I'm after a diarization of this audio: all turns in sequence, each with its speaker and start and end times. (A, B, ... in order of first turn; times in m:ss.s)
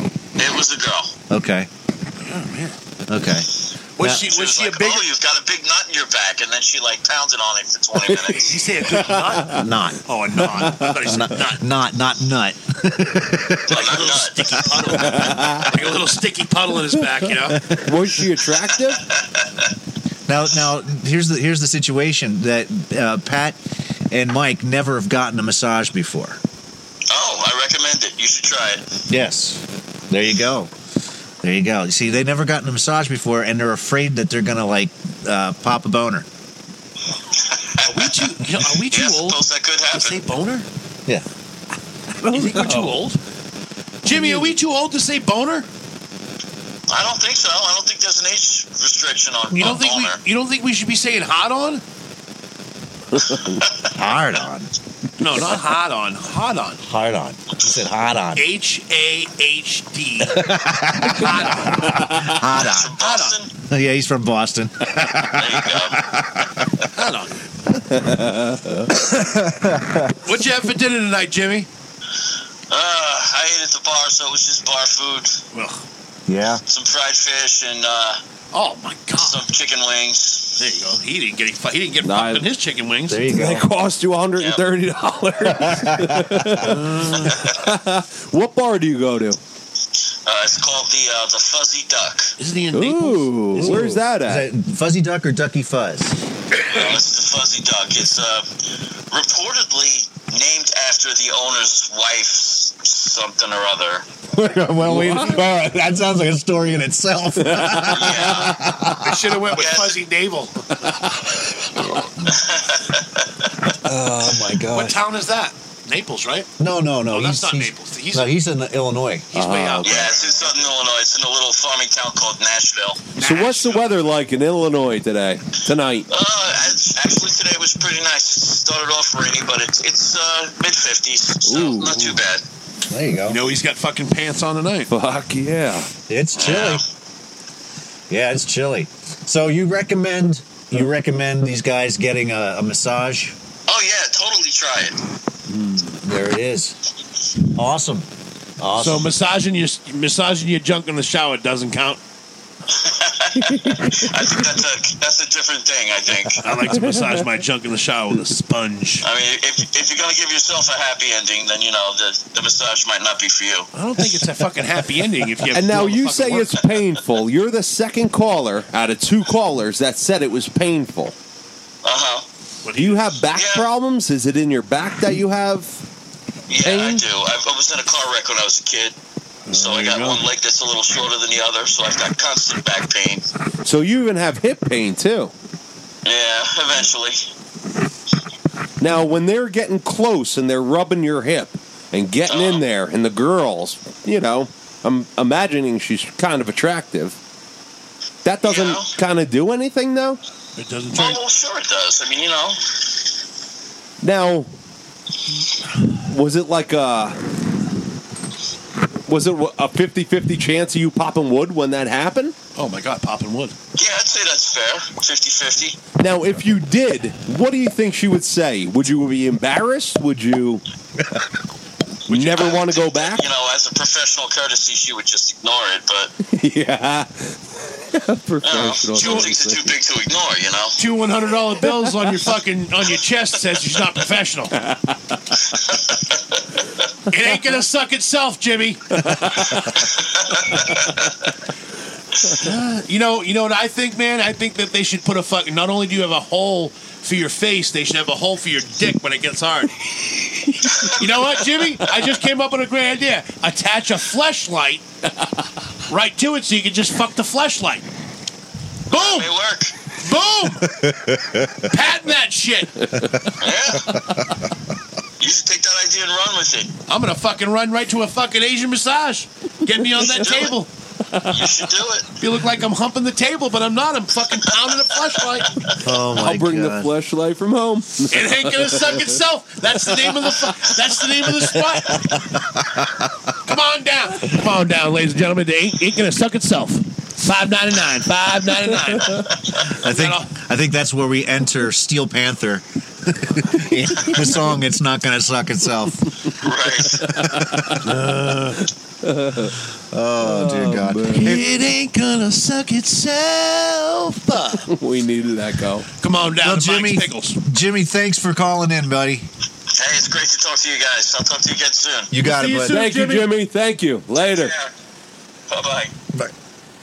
0:00.4-0:01.1 A
0:01.3-0:01.7 B
0:02.2-0:02.8 C
0:03.1-0:03.5 B
0:04.0-0:05.1 C
0:04.0-0:04.3 B
0:04.2-0:08.6 A
0:08.2-0:11.6 C
0:08.9-0:09.6 D
0:09.5-0:10.0 B
0:11.0-0:14.0 B
0:13.7-0:14.7 A
0:13.7-0:17.7 C
0:14.9-0:15.7 D
0:17.7-0:19.0 D
0:20.3-0:23.6 B
0:24.1-0:26.4 B
0:27.1-0:28.8 A
0:29.1-0:30.7 B
0:31.4-0:36.3 B
0:37.8-0:38.1 A
0:37.8-0:40.7 C
0:38.9-0:40.2 A
0:42.2-0:43.0 D
0:42.3-0:43.2 C
0:44.0-0:45.7 C
0:44.1-0:44.5 D
0:46.9-0:50.2 A
0:49.6-0:51.8 C
0:53.2-0:53.6 D
0:53.8-0:54.7 B
0:55.2-0:56.8 C
0:56.8-0:58.4 B
0:58.4-1:02.4 C
1:00.3-1:01.3 B
1:02.1-1:02.9 B
1:02.6-1:03.5 A
1:03.0-1:03.4 C
1:03.7-1:05.6 B
1:05.4-1:06.0 A
1:06.9-1:07.4 C
1:07.8-1:08.9 D
1:09.4-1:10.2 B
1:10.2-1:11.7 C
1:12.7-1:15.4 A
1:15.5-1:15.8 C
1:16.3-1:16.6 B
1:16.7-1:18.2 A
1:18.5-1:19.4 C
1:19.2-1:20.5 A
1:20.6-1:23.3 C
1:22.0-1:22.5 D
1:23.1-1:23.7 B
1:23.3-1:29.4 D
1:24.4-1:24.6 A
1:25.5-1:26.7 B
1:26.6-1:27.4 C
1:30.3-1:32.3 A
1:32.4-1:34.0 C
1:32.7-1:34.5 D
1:33.6-1:36.2 B
1:36.7-1:38.5 A
1:39.1-1:44.0 A
1:44.3-1:49.3 B
1:44.8-1:45.5 D
1:47.4-1:48.5 D
1:47.9-1:48.6 A
1:49.0-1:50.6 C
1:49.5-1:50.0 A
1:52.3-1:53.0 A
1:53.8-1:55.0 B
1:54.7-1:56.5 C
1:56.6-1:59.3 B
1:57.1-1:58.3 C
1:59.3-2:00.7 C
1:59.4-2:00.0 D
1:59.8-2:03.1 A
2:03.2-2:04.0 C
2:03.2-2:06.1 D
2:06.1-2:12.4 A
2:11.5-2:12.1 D
2:12.9-2:13.4 B
2:13.3-2:14.9 C
2:14.9-2:15.9 D
2:16.1-2:16.8 B
2:16.4-2:16.8 A
2:18.1-2:23.4 B
2:23.7-2:25.0 A
2:26.0-2:26.8 B
2:27.6-2:28.1 B
2:28.6-2:29.1 B
2:28.8-2:32.0 C
2:32.8-2:36.4 A
2:36.4-2:39.1 C
2:36.7-2:37.2 D
2:39.0-2:43.7 A
2:43.7-2:46.6 C
2:45.5-2:51.1 D
2:51.8-2:52.2 A
2:52.6-2:53.1 C
2:52.8-2:55.8 D
2:53.3-2:53.7 A
2:56.5-2:59.0 A
2:56.6-2:57.0 D
2:59.5-3:00.2 C
2:59.5-3:03.2 A
3:03.6-3:05.3 D
3:06.0-3:07.3 A
3:08.8-3:17.2 D
3:12.3-3:12.6 A
3:18.2-3:20.2 D
3:18.4-3:18.9 A
3:20.6-3:21.2 C
3:20.9-3:22.6 A
3:24.0-3:24.5 D
3:26.0-3:27.2 D
3:29.1-3:32.4 D
3:32.6-3:33.6 C
3:33.8-3:35.8 A
3:36.0-3:40.6 D
3:42.1-3:43.3 D
3:42.1-3:42.6 C
3:42.4-3:46.1 A
3:46.3-3:49.7 D
3:48.4-3:50.8 A
3:50.8-3:54.5 C
3:51.6-3:52.1 D
3:54.6-3:55.2 D
3:57.1-3:59.0 C
3:59.0-3:59.8 D
4:00.3-4:00.8 A
4:02.4-4:09.8 C
4:10.7-4:11.0 A
4:10.8-4:14.8 C
4:15.9-4:17.8 C
4:18.9-4:19.7 A
4:18.9-4:19.3 C
4:19.9-4:20.8 C
4:20.8-4:21.5 B
4:21.6-4:22.9 C
4:22.8-4:23.3 D
4:23.4-4:23.9 A
4:25.2-4:26.7 A
4:26.9-4:30.7 C
4:30.2-4:30.5 A
4:31.1-4:31.5 D
4:31.3-4:32.1 A
4:32.2-4:35.6 C
4:35.8-4:36.9 B
4:36.2-4:39.0 D
4:38.1-4:42.1 C
4:43.5-4:50.3 C
4:48.9-4:49.2 D
4:49.6-4:56.3 B
4:56.4-4:57.0 A
4:57.0-4:57.8 D
4:57.0-4:57.8 B
4:57.8-4:58.6 C
4:59.0-4:59.6 D
4:59.9-5:01.4 B
5:00.2-5:01.4 D
5:01.2-5:04.7 C
5:04.6-5:05.9 D
5:06.0-5:07.4 C
5:06.4-5:09.3 B
5:09.8-5:12.1 A
5:12.1-5:12.8 B
5:12.2-5:13.3 C
5:12.7-5:14.5 D
5:14.2-5:14.7 A
5:15.5-5:15.9 A